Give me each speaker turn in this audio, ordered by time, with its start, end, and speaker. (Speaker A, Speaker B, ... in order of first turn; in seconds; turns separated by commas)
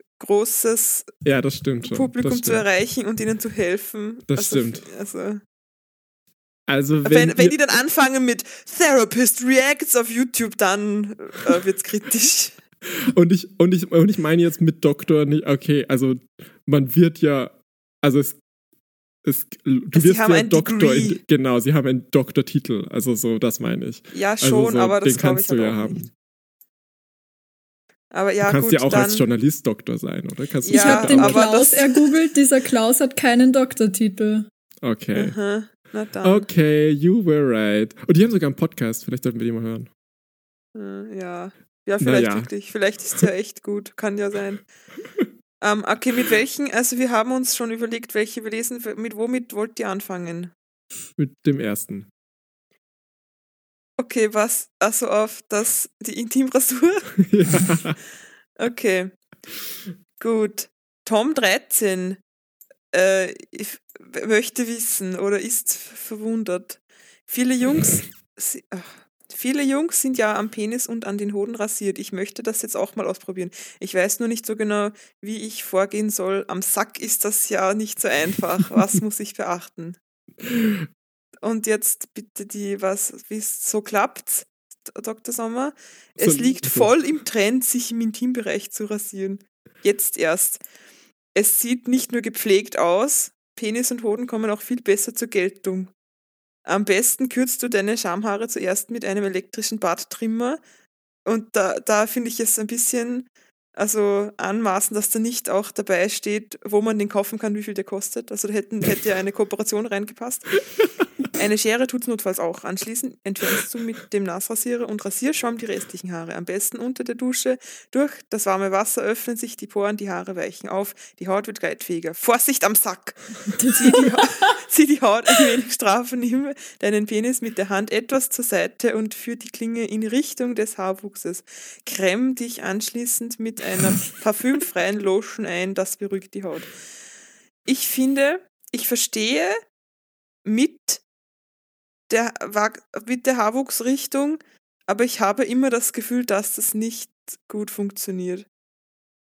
Speaker A: 0.2-1.2, Speaker B: 1.2-2.6, Speaker A: 1.8-5.4, Speaker B: 4.3-4.9, Speaker B: 6.7-7.6, Speaker A: 7.0-12.6, Speaker B: 13.1-18.4, Speaker B: 19.2-26.1, Speaker A: 19.9-21.2, Speaker A: 24.1-26.1, Speaker A: 28.1-29.2, Speaker B: 28.4-31.4, Speaker A: 30.6-32.1, Speaker C: 30.7-34.5, Speaker B: 34.8-35.4, Speaker A: 35.1-36.5, Speaker B: 36.2-39.9, Speaker A: 40.8-44.6, Speaker B: 42.0-42.5, Speaker A: 45.6-50.5, Speaker B: 51.2-52.1, Speaker A: 54.0-57.1, Speaker B: 57.2-58.0, Speaker A: 58.6-59.1, Speaker A: 60.2-62.2, Speaker A: 62.9-80.0, Speaker B: 80.5-80.8, Speaker A: 81.4-90.6, Speaker B: 86.2-86.9, Speaker A: 91.3-95.9, Speaker A: 96.7-100.6, Speaker A: 101.2-110.6, Speaker A: 111.3-136.7, Speaker C: 123.6-124.3, Speaker A: 137.7-139.6, Speaker A: 140.4-141.0, Speaker A: 142.1-148.5